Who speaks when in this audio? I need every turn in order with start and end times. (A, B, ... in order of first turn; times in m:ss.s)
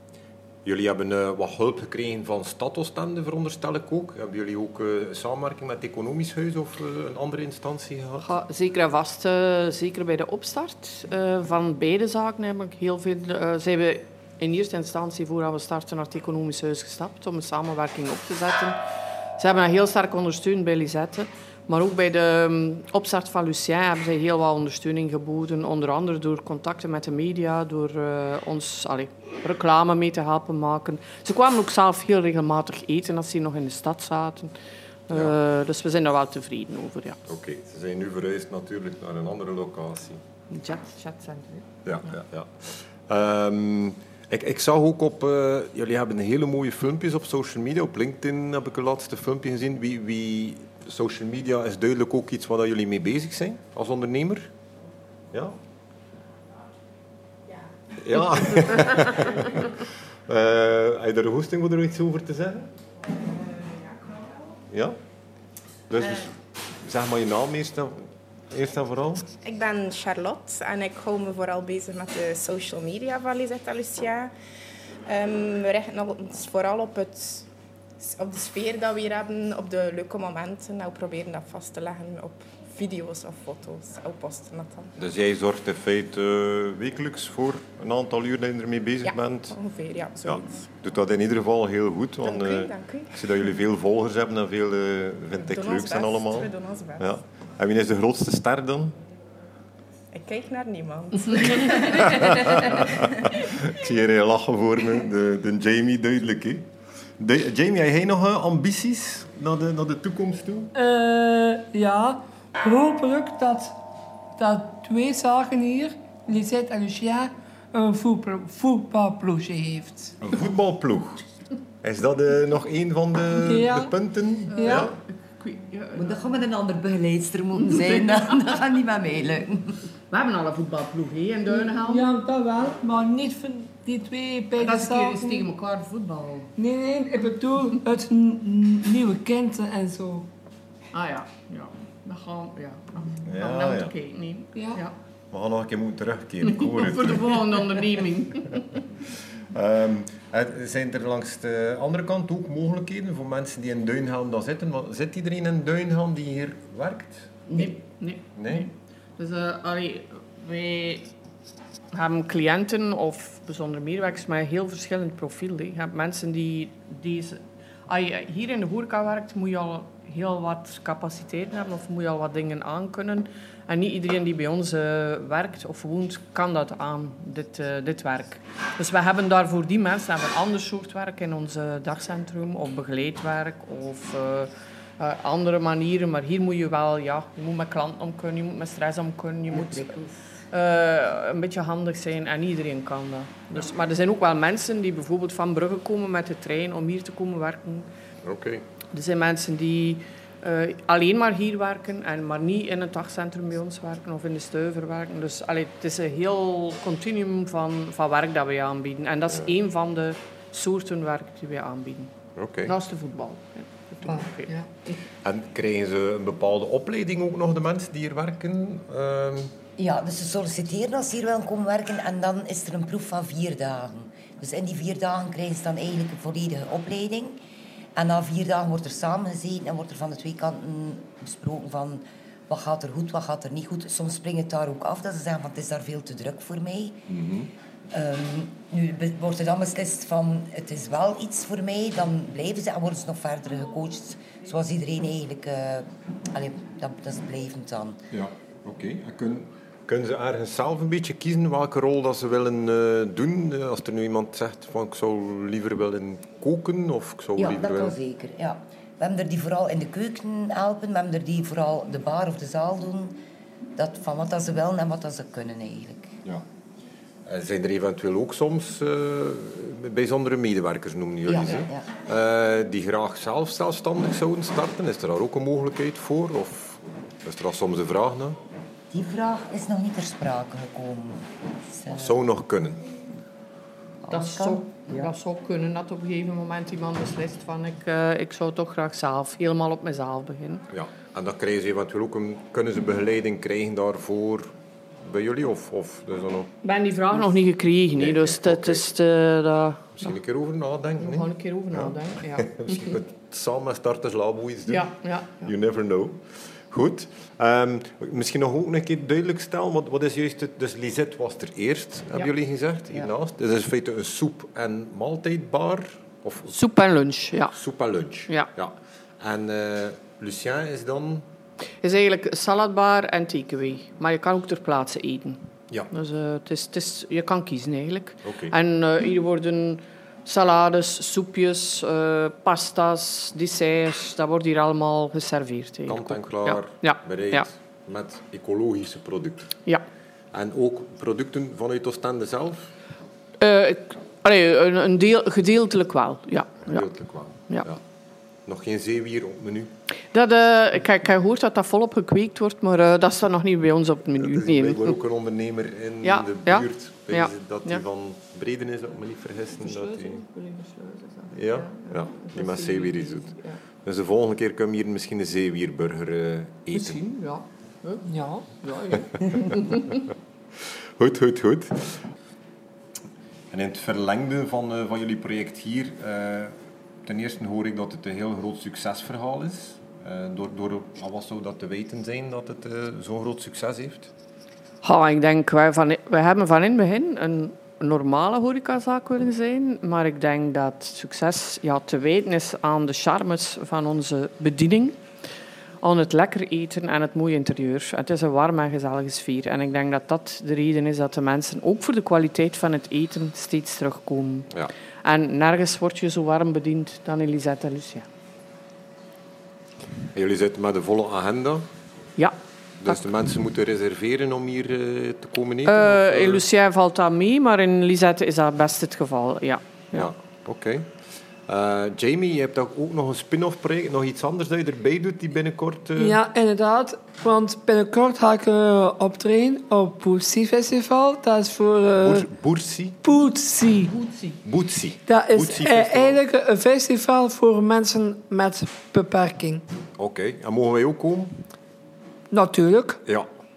0:00.6-0:08.2 A
0:08.2-0:18.8 B
0:19.4-0:34.5 B
0:35.1-0:37.2 B
0:37.3-0:40.2 A
0:40.5-0:41.7 B
0:41.8-0:54.5 A
0:55.3-0:55.6 A
0:58.0-1:02.7 A
1:04.7-1:05.0 A
1:05.9-1:06.3 A
1:06.8-1:09.3 A
1:09.4-1:14.3 C
1:15.0-1:17.4 C
1:18.0-1:24.9 C
1:25.0-1:29.6 A
1:29.0-1:30.6 C
1:30.2-1:38.9 A
1:32.2-1:33.1 C
1:35.4-1:37.0 C
1:40.1-1:43.3 C
1:41.8-1:46.6 A
1:47.2-1:50.7 A
1:50.7-1:53.7 D
1:54.4-2:00.2 D
2:00.2-2:01.2 A
2:01.8-2:04.9 A
2:03.4-2:03.9 D
2:04.5-2:06.1 B
2:04.6-2:04.9 D
2:05.9-2:09.8 E
2:07.6-2:08.2 B
2:10.1-2:12.1 B
2:11.8-2:15.4 D
2:14.6-2:16.5 B
2:16.6-2:20.3 D
2:20.9-2:25.0 B
2:23.2-2:23.9 A
2:24.5-2:24.8 D
2:25.3-2:27.8 A
2:26.4-2:28.8 B
2:29.5-2:37.4 A
2:37.5-2:41.1 B
2:38.4-2:38.7 A
2:41.9-3:10.0 B
3:09.5-3:10.1 E
3:10.5-3:17.9 B
3:18.2-3:18.6 A
3:18.9-3:32.1 B
3:32.4-3:32.7 A
3:32.6-3:34.6 B
3:34.0-3:34.6 D
3:35.2-3:39.5 A
3:39.8-3:47.4 E
3:48.0-3:57.0 E
3:57.1-3:57.5 A
3:57.9-4:08.0 E
4:08.1-4:18.0 A
4:17.4-4:23.2 E
4:23.8-4:26.2 E
4:27.2-4:38.4 A
4:31.2-4:31.9 E
4:38.9-4:42.2 E
4:41.9-4:42.8 A
4:44.0-4:45.1 E
4:44.1-4:50.6 B
4:50.7-4:54.5 A
4:55.0-4:56.5 A
4:56.6-5:00.1 B
4:57.9-4:58.8 A
4:59.9-5:04.9 A
5:01.0-5:03.0 B
5:04.7-5:05.5 B
5:05.4-5:16.6 A
5:16.5-5:17.5 B
5:17.5-5:21.2 A
5:21.8-5:25.4 B
5:25.9-5:37.5 B
5:28.2-5:28.5 A
5:35.9-5:39.6 A
5:40.3-5:42.7 A
5:43.4-5:46.9 B
5:46.6-5:47.8 A
5:48.4-5:49.7 A
5:50.1-5:55.0 B
5:54.2-6:00.2 A
5:56.0-5:57.8 B
5:59.6-6:03.6 B
6:01.3-6:07.0 A
6:06.7-6:09.9 B
6:08.1-6:08.5 D
6:10.6-6:12.0 A
6:13.5-6:16.5 A
6:17.0-6:24.1 A
6:24.8-6:35.0 B
6:35.8-6:44.5 B
6:45.0-6:48.1 B
6:50.1-6:51.6 A
6:52.8-6:56.4 A
6:55.6-7:00.1 B
6:59.9-7:00.9 A
7:01.5-7:06.2 A
7:06.0-7:12.3 D
7:12.0-7:13.0 A
7:13.0-7:14.0 D
7:14.0-7:14.3 B
7:14.4-7:16.2 A
7:15.1-7:19.6 D
7:20.0-7:21.4 A
7:22.3-7:23.0 D